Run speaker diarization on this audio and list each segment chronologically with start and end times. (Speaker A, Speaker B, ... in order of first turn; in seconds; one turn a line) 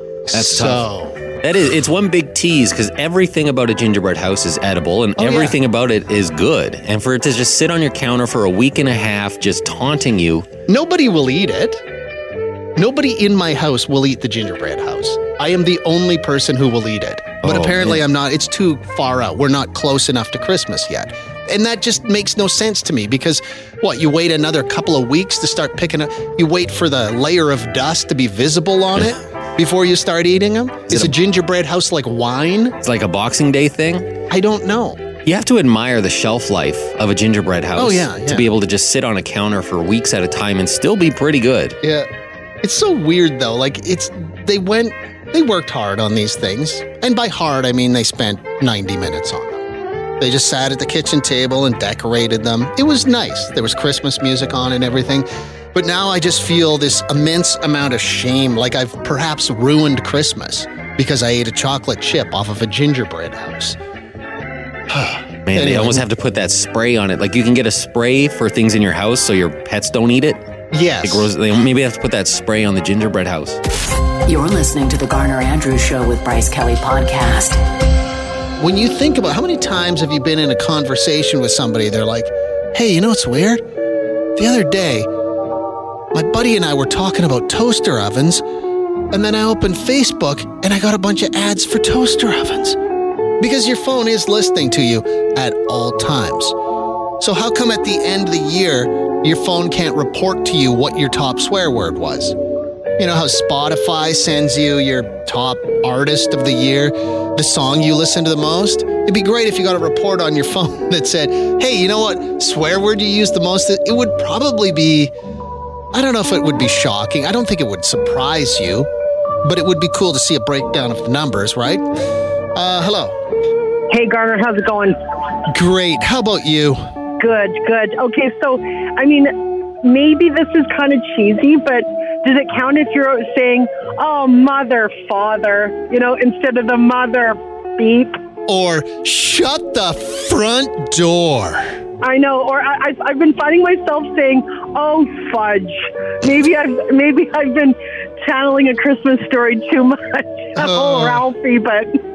Speaker A: 0.3-1.2
Speaker B: 0.3-10.5
Speaker A: 5.2-5.6
Speaker A: 10.7-11.8
Speaker A: 12.8-32.8
Speaker B: 17.4-18.0
Speaker B: 30.9-31.1
Speaker B: 32.8-34.1
Speaker A: 34.3-35.0
Speaker B: 35.2-41.8
Speaker A: 37.8-38.5
Speaker A: 41.8-42.1
Speaker A: 42.6-49.6
Speaker A: 50.2-63.8
Speaker A: 64.9-66.0
Speaker B: 65.5-70.4
Speaker A: 70.7-71.3
Speaker B: 71.0-73.6
Speaker C: 74.3-77.6
Speaker A: 78.6-83.6
Speaker A: 84.4-85.1
Speaker A: 86.1-88.4
Speaker A: 89.1-92.8
Speaker A: 93.4-96.6
Speaker A: 97.2-102.4
Speaker A: 103.0-115.1
Speaker A: 115.9-118.9
Speaker A: 119.4-121.8
Speaker A: 122.5-123.2
Speaker D: 123.9-125.0
Speaker A: 125.5-126.8
Speaker D: 127.2-138.2
Speaker A: 138.5-141.7
Speaker D: 142.0-152.0
Speaker A: 150.6-151.3